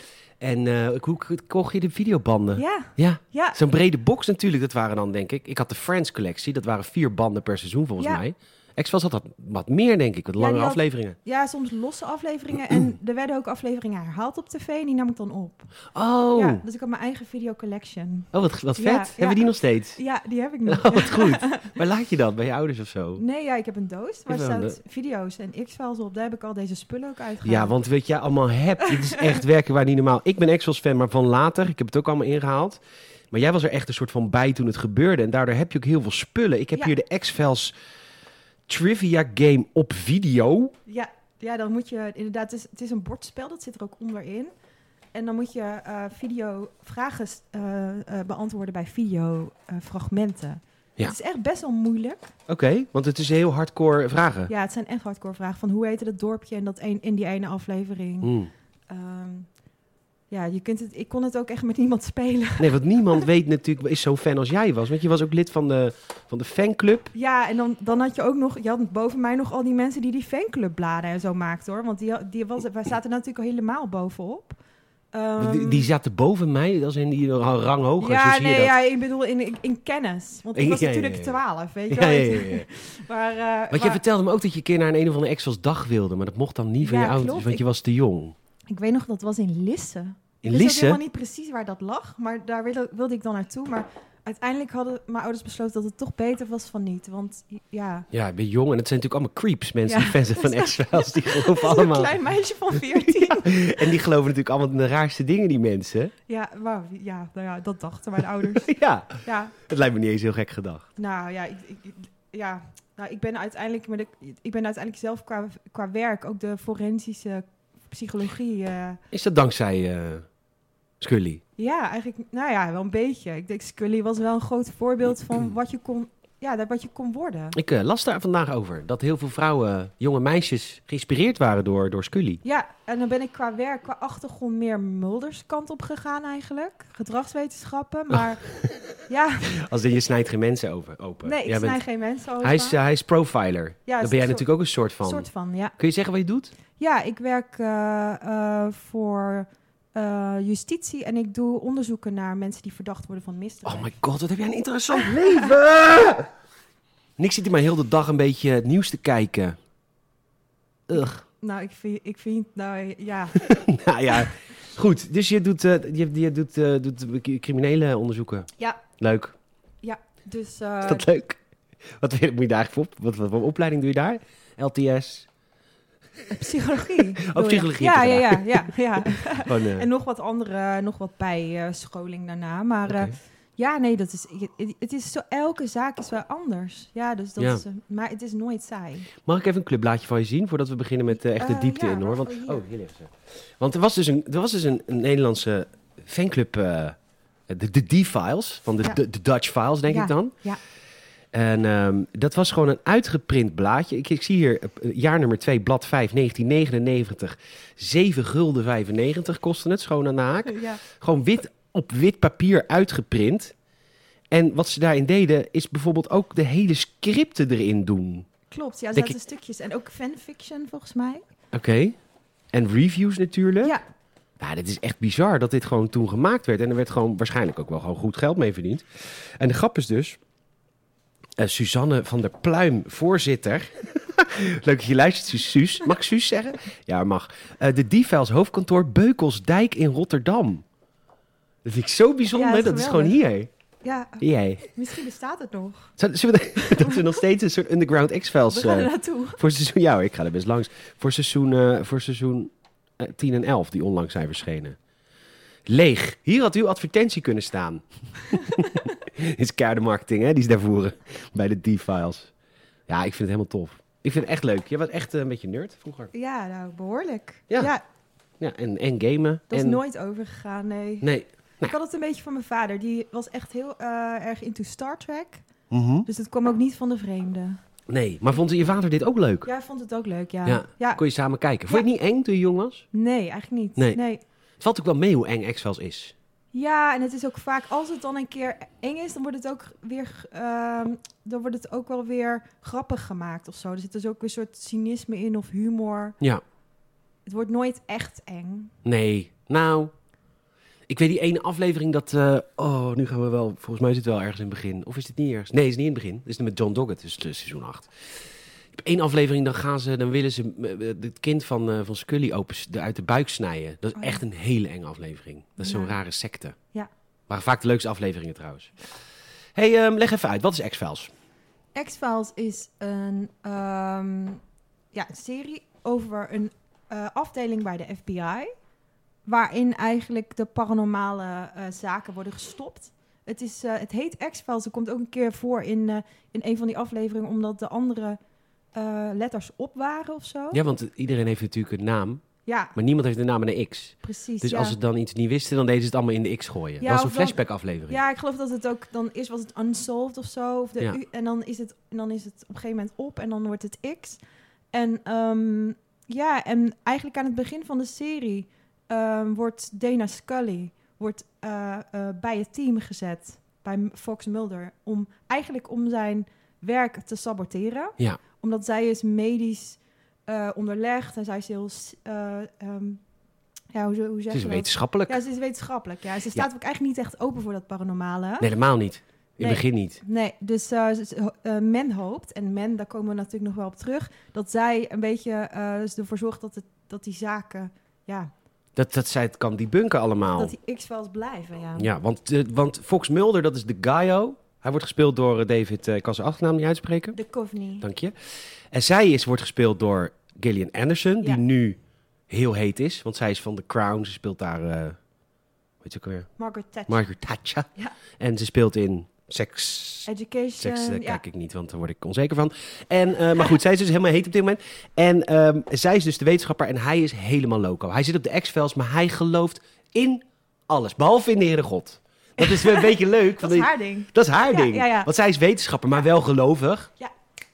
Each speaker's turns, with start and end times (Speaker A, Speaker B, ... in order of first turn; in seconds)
Speaker A: 0.4-11.2, 15.9-16.6, 18.3-20.0, 20.7-23.2, 24.3-24.8, 27.4-32.8, 33.3-37.7, 38.7-40.7, 52.5-54.5, 58.2-58.5, 62.6-67.1, 75.4-78.7, 80.5-81.4, 81.9-82.7, 83.7-88.3, 90.4-91.0, 98.1-102.2, 102.8-106.1, 108.5-110.9, 119.1-120.3, 121.0-121.4, 127.5-132.4, 139.5-141.8, 142.4-145.3, 145.8-146.5, 153.7-156.3, 157.2-159.6, 160.9-161.2, 163.4-169.3, 170.8-171.4, 172.0-175.3, 177.2-179.9, 182.9-183.1, 187.4-187.6, 189.2-197.0, 197.5-200.3, 201.3-213.5, 214.3-218.3, 221.5-222.0, 222.5-223.7, 224.4-230.2, 231.4-240.6, 241.7-243.5, 244.2-244.7, 246.0-254.8, 255.7-262.3, 262.9-266.1, 268.4-269.8, 271.0-271.7, 275.7-276.1, 277.9-279.5, 280.4-282.9, 284.6-286.1, 298.9-299.9, 300.9-307.9, 308.7-316.6, 317.3-318.7, 319.6-321.1, 340.5-342.2, 342.8-348.0, 374.3-375.2, 378.4-380.0, 388.8-390.5, 391.8-397.2, 397.8-398.1, 398.7-401.8, 402.3-405.0, 405.8-406.3, 406.9-426.9
Speaker B: 2.6-3.6, 10.4-15.7, 16.3-21.7, 23.2-27.8, 28.8-29.4, 40.9-44.5, 45.1-52.3, 54.5-58.3, 58.9-59.5, 60.3-63.3, 67.1-74.6, 75.1-75.9, 78.0-84.0, 86.8-87.6, 88.7-98.1, 99.9-104.0, 106.3-108.7, 109.2-109.6, 111.0-119.0, 121.6-127.6, 132.4-138.5, 139.0-139.6, 141.2-142.8, 143.9-144.5, 145.0-145.8, 146.8-153.9, 155.0-155.5, 160.9-163.4, 169.8-171.1, 176.3-189.1, 191.3-192.7, 199.9-200.6, 210.5-210.8, 218.5-221.2, 242.3-243.2, 243.8-245.9, 246.6-247.1, 248.5-249.4, 258.3-258.9, 266.1-267.8, 269.5-271.1, 271.6-275.5, 276.1-277.6, 279.4-281.0, 282.9-284.2, 286.5-296.2, 297.3-298.7, 314.0-314.2, 315.6-316.0, 321.8-324.4, 324.9-328.5, 329.2-338.2, 338.7-340.6, 342.5-342.8, 344.0-344.8, 346.8-354.2, 354.7-373.0, 373.7-378.5, 379.4-388.3, 390.4-391.9, 397.1-397.9, 406.4-407.1, 410.1-411.2, 422.4-425.1